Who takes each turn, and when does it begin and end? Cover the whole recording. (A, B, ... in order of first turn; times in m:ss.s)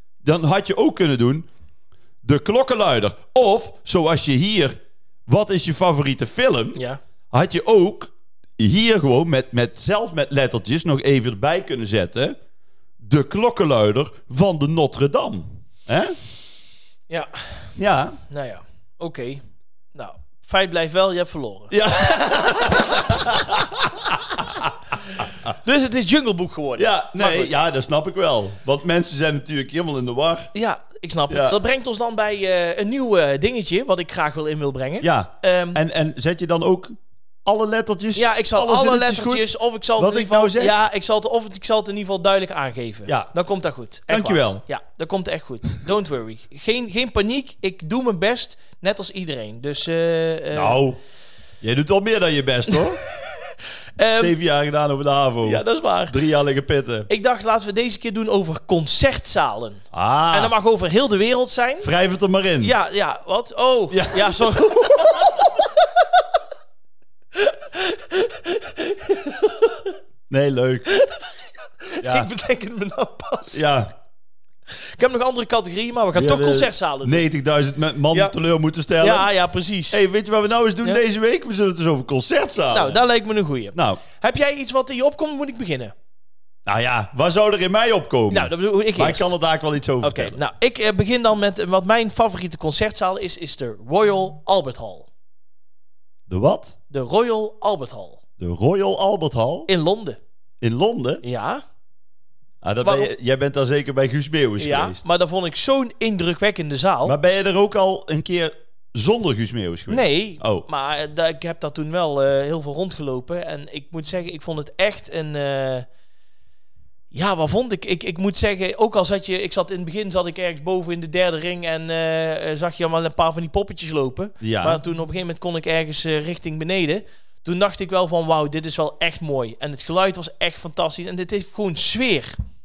0:00.2-0:01.5 A
0:02.2-0:06.8 A
0:06.8-0:07.0 B
0:07.3-0:12.4 A
0:13.0-0:16.2 A
0:17.1-0:17.5 B
0:17.8-0:18.2 A
0:18.3-0:19.4 B
0:19.9-0:23.5 B
0:21.7-0:25.5 A
0:25.6-0:27.5 B
0:26.8-0:30.5 A
0:30.5-0:35.8 B
0:31.3-0:31.6 A
0:35.0-0:40.8 A
0:38.2-0:50.8 B
0:44.1-0:44.6 A
0:50.5-0:51.0 A
0:51.6-0:53.0 A
0:54.0-0:54.3 B
0:54.1-0:57.1 A
0:55.4-0:56.2 B
0:57.1-1:01.9 B
0:59.9-1:00.5 A
1:01.8-1:02.7 A
1:02.6-1:06.0 B
1:03.9-1:05.3 A
1:07.4-1:09.9 B
1:10.3-1:10.9 A
1:10.9-1:13.6 B
1:12.0-1:12.3 A
1:13.5-1:13.9 A
1:15.0-1:17.2 B
1:16.2-1:19.3 A
1:19.0-1:20.0 B
1:19.9-1:23.0 A
1:22.7-1:25.9 B
1:23.7-1:24.0 A
1:26.7-1:30.4 A
1:28.3-1:29.3 B
1:30.0-1:35.1 B
1:36.3-1:36.8 A
1:36.9-1:38.2 B
1:38.4-1:39.7 A
1:39.7-1:40.2 B
1:40.6-1:41.2 A
1:41.2-1:41.6 B
1:42.6-1:45.0 A
1:42.8-1:43.1 B
1:44.6-1:47.2 B
1:47.0-1:50.7 A
1:49.9-1:55.9 B
1:57.1-2:12.3 B
2:04.4-2:04.8 A